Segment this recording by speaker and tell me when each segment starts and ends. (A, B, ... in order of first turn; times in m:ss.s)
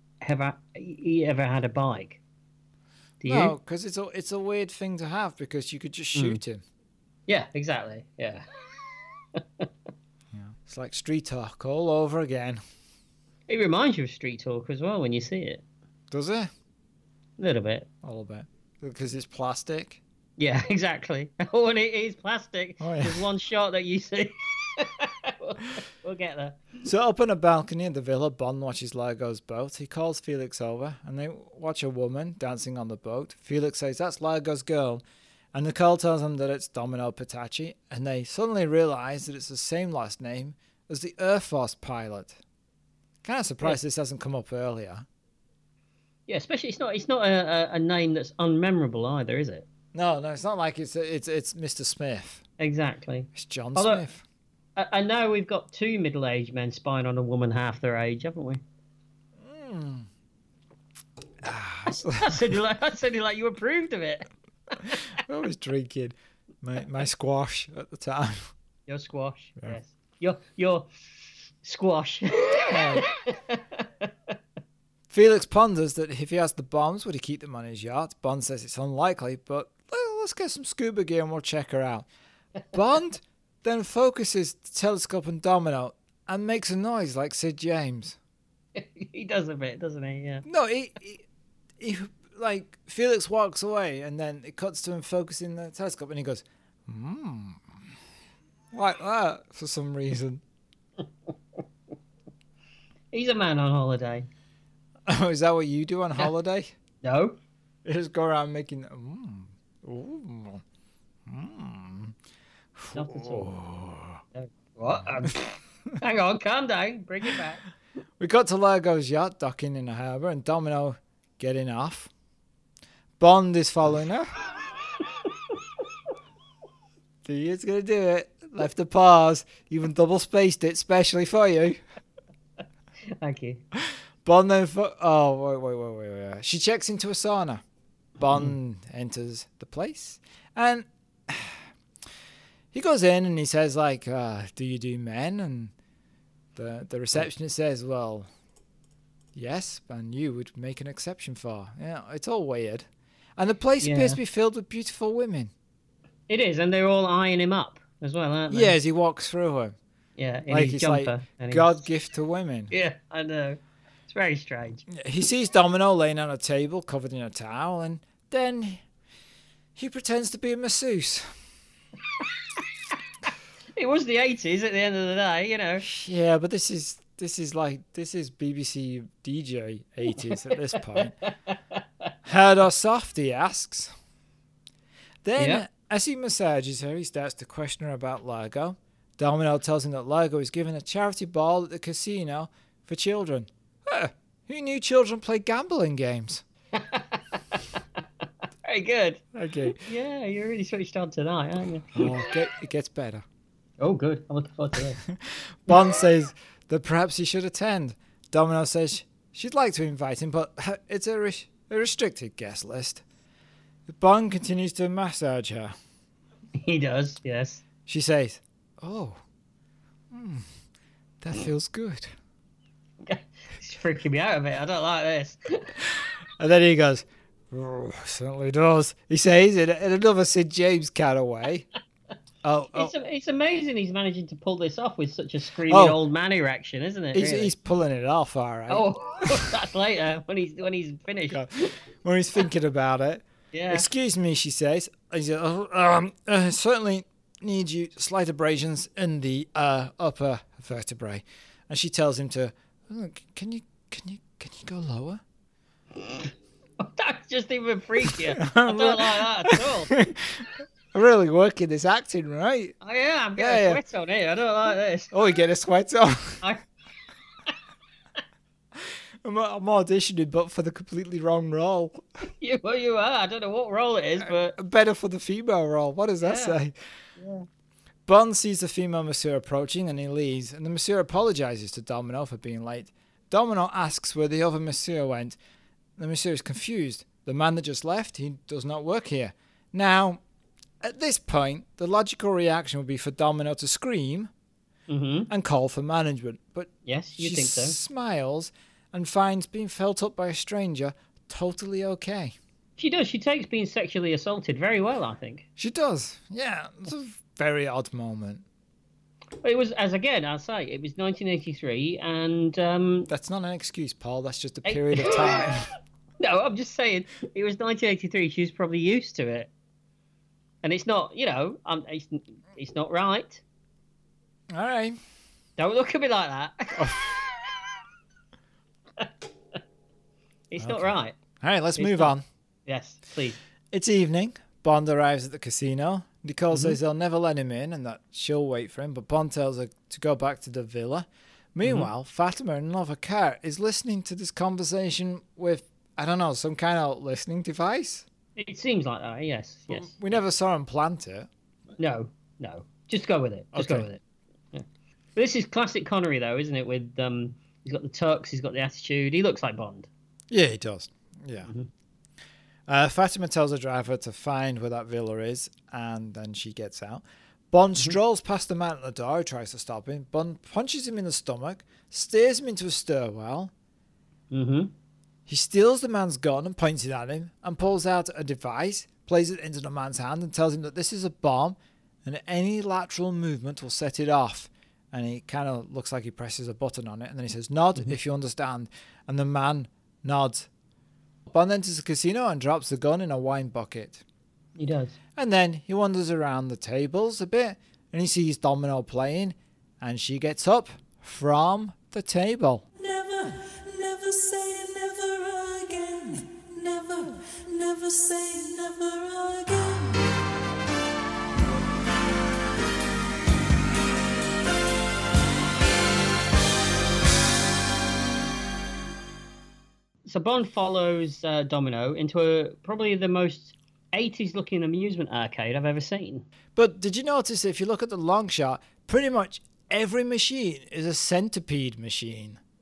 0:00.2-0:02.2 A
0:03.2-0:03.6 A
0:03.2-0:06.6 B
0:06.2-0:06.4 A
0:07.3-0:08.4 A
0:09.4-0:09.7 A
0:10.3-0:12.6 B
0:13.5-0:15.6 A
0:16.1-0:16.5 B
0:17.4-0:17.9 A
0:18.0-0:20.0 B
0:20.4-0:26.6 A
0:22.8-0:23.3 B
0:26.8-0:35.0 B
0:35.5-0:42.4 B
0:43.2-0:45.1 B
0:46.3-0:49.7 A
0:49.9-0:52.4 B
0:52.6-0:54.0 A
0:53.4-0:54.2 B
0:54.8-0:58.6 A
0:59.4-1:00.1 B
1:01.4-1:02.5 B
1:02.2-1:04.3 A
1:05.2-1:08.5 B
1:08.9-1:10.9 A
1:11.6-1:14.1 A
1:12.7-1:13.1 B
1:15.1-1:22.1 B
1:22.7-1:28.2 B
1:28.8-1:30.4 A
1:30.4-1:31.2 B
1:31.8-1:37.8 B
1:38.7-1:40.4 B
1:43.1-1:44.3 A
1:45.1-1:46.7 B
1:47.0-1:47.4 A
1:47.8-1:50.6 B
1:51.3-1:52.2 B
1:52.8-1:54.2 B
1:52.9-1:53.5 A
1:54.4-1:57.6 A
1:58.2-2:02.1 B
2:03.2-2:04.4 B
2:07.2-2:11.8 B
2:13.2-2:13.6 A
2:13.8-2:17.6 B
2:18.2-2:21.6 B
2:22.7-2:25.7 B
2:26.6-2:28.3 B
2:29.4-2:35.5 B
2:33.8-2:34.2 A
2:36.3-2:38.8 A
2:38.5-2:39.8 B
2:40.2-2:41.8 A
2:40.5-2:42.7 B
2:42.7-2:44.8 A
2:44.9-2:48.8 B
2:49.8-2:51.3 B
2:53.8-2:55.8 A
2:55.8-3:01.1 B
3:00.3-3:02.1 A
3:02.2-3:03.9 B
3:05.2-3:16.4 B
3:05.4-3:05.6 A
3:16.8-3:17.6 A
3:18.7-3:22.3 A
3:19.3-3:19.8 B
3:21.9-3:23.2 B
3:23.8-3:25.0 A
3:25.1-3:33.0 B
3:33.9-3:35.7 B
3:36.6-3:37.6 A
3:37.9-3:39.2 B
3:40.1-3:40.5 B
3:41.2-3:42.1 B
3:43.0-3:45.7 A
3:45.9-3:51.7 B
3:52.4-3:52.9 B
3:52.7-3:57.5 A
3:55.7-3:56.0 B
3:57.1-3:59.6 B
3:58.7-4:01.7 A
4:02.0-4:15.2 B
4:03.5-4:03.9 A
4:16.0-4:19.9 A
4:18.0-4:22.8 B
4:22.8-4:25.1 A
4:23.4-4:23.8 B
4:25.1-4:26.4 B
4:28.8-4:32.0 B
4:32.4-4:34.6 A
4:34.2-4:36.8 B
4:36.2-4:36.6 A
4:37.2-4:37.4 A
4:38.1-4:45.4 B
4:46.0-4:50.2 B
4:50.8-4:54.3 B
4:54.9-4:55.3 A
4:55.3-5:02.4 B
4:56.9-4:57.8 A
5:02.8-5:05.4 A
5:05.6-5:08.4 B
5:09.4-5:13.1 A
5:13.1-5:15.7 B
5:14.6-5:15.5 A
5:16.2-5:19.5 A
5:20.6-5:23.4 A
5:24.5-5:25.0 B
5:25.6-5:27.6 A
5:26.8-5:27.1 B
5:30.5-5:31.2 A
5:30.6-5:32.2 B
5:31.8-5:32.1 A
5:32.7-5:33.4 A
5:33.7-5:48.0 B
5:36.5-5:36.8 A
5:41.6-5:41.9 A
5:48.4-5:50.2 A
5:49.7-5:51.3 B
5:51.8-5:54.0 A
5:53.5-5:53.9 B
5:55.2-5:59.9 A
6:00.3-6:01.5 B
6:02.7-6:13.5 B
6:14.3-6:14.7 A
6:15.3-6:30.5 B
6:31.3-6:34.0 B
6:34.6-6:35.0 A
6:35.2-6:42.7 B
6:42.8-6:49.9 C
7:00.1-7:06.3 A
7:06.6-7:12.4 B